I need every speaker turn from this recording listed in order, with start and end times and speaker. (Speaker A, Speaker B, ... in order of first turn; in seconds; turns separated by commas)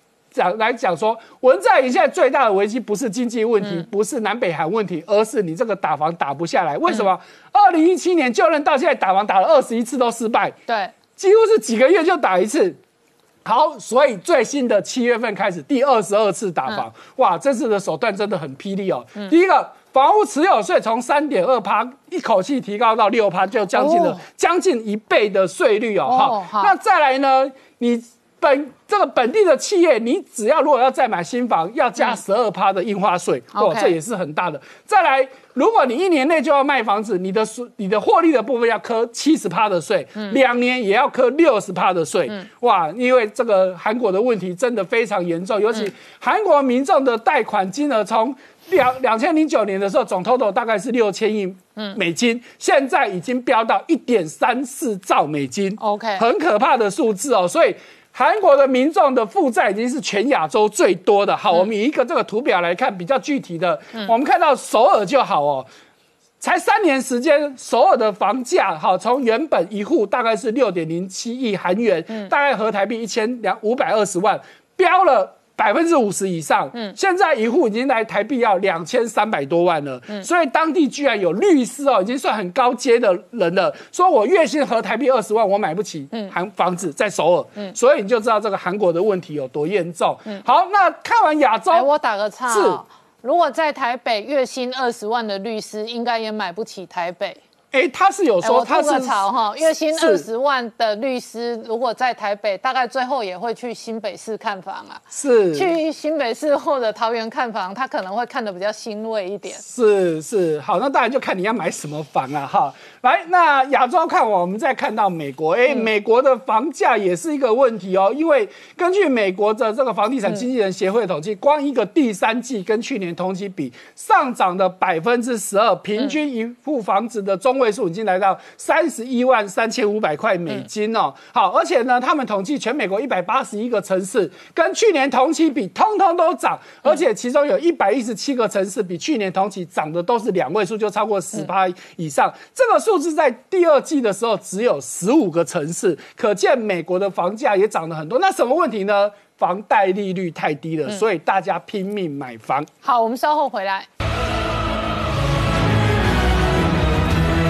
Speaker A: 0.3-10.5, Speaker B: 10.7-10.9, Speaker A: 11.1-12.8, Speaker A: 13.4-65.7, Speaker B: 23.7-24.2, Speaker B: 26.1-26.7, Speaker B: 33.5-34.0, Speaker B: 55.8-56.2, Speaker A: 66.4-91.9, Speaker B: 91.7-97.4, Speaker A: 92.5-92.8, Speaker A: 97.7-99.3, Speaker B: 98.4-109.6, Speaker A: 99.9-100.2, Speaker A: 105.1-105.7, Speaker A: 109.6-152.7, Speaker B: 152.8-153.9